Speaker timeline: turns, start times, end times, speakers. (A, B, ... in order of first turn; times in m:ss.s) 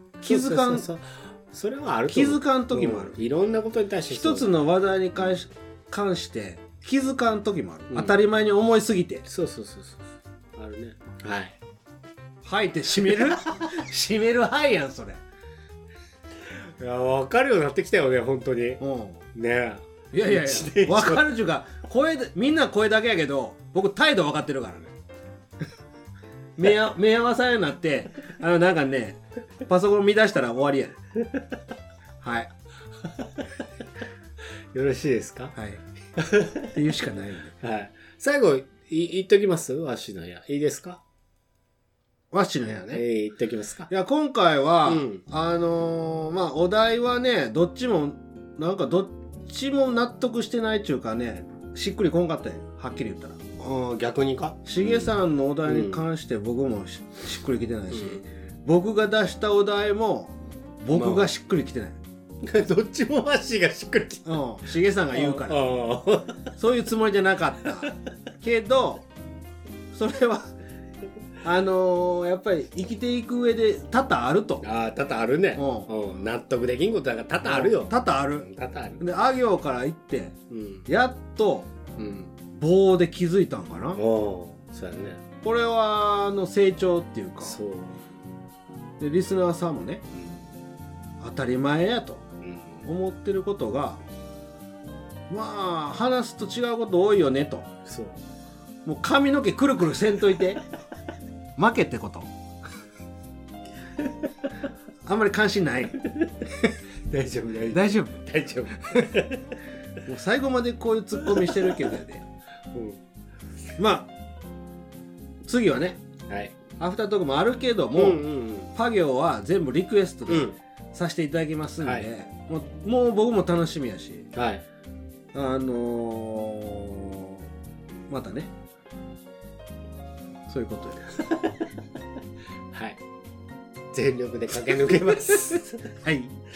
0:00.2-0:00.9 A
0:00.3-0:04.5 B
0:02.1-0:03.2 A
0:04.1-0:09.3 A
0:07.9-0:08.2 B
0:09.3-0:11.6 B
0:12.4-0:15.2 A
0:16.5-0:18.8 B
0:18.8-0:19.2 A
0:19.4-0:21.3 B
0:20.1-0:24.9 A
0:26.6-0:31.0 A
0:32.2-0:32.5 A
0:34.7-0:35.5 B
0:35.6-0:35.8 A
0:36.2-0:36.7 B
0:36.7-0:37.5 A
0:37.6-0:41.0 B
0:42.3-0:43.0 A
0:42.9-0:43.9 B
0:43.9-0:53.4 A
0:44.9-0:45.2 B
0:53.6-0:55.1 B
0:54.6-1:02.0 A
0:55.7-0:56.0 B
0:57.9-0:58.2 B
1:00.9-1:01.3 B
1:02.4-1:04.3 B
1:04.3-1:05.7 A
1:05.1-1:06.5 B
1:06.6-1:09.1 A
1:09.9-1:10.5 A
1:11.4-1:14.6 A
1:14.6-1:19.0 B
1:15.6-1:15.9 A
1:17.4-1:18.5 A
1:19.0-1:21.7 A
1:20.5-1:20.9 B
1:22.0-1:22.3 B
1:22.5-1:24.0 A
1:24.0-1:25.2 B
1:25.4-1:27.6 A
1:27.4-1:28.0 B
1:29.0-1:30.0 A
1:30.2-1:30.4 B
1:31.2-1:32.2 A
1:32.4-1:32.9 B
1:32.8-1:34.0 A
1:35.3-1:37.7 A
1:37.8-1:38.2 B
1:38.8-1:40.6 A
1:41.6-1:42.3 A
1:45.0-1:46.0 A
1:46.0-1:49.6 B
1:47.7-1:48.2 A
1:50.1-1:52.2 A
1:51.3-1:51.6 B
1:52.7-1:53.0 B
1:53.8-1:54.1 A
1:55.4-1:56.0 A
1:56.3-1:56.6 B
1:56.8-1:58.2 A
1:58.0-1:58.7 B
1:58.7-2:04.3 A
2:00.3-2:00.6 B
2:01.8-2:02.1 B
2:04.3-2:04.6 B
2:05.3-2:07.5 A
2:08.1-2:08.5 A
2:10.5-2:11.0 A
2:11.2-2:11.6 B
2:12.7-2:13.0 B
2:13.9-2:15.8 B
2:15.8-2:16.4 A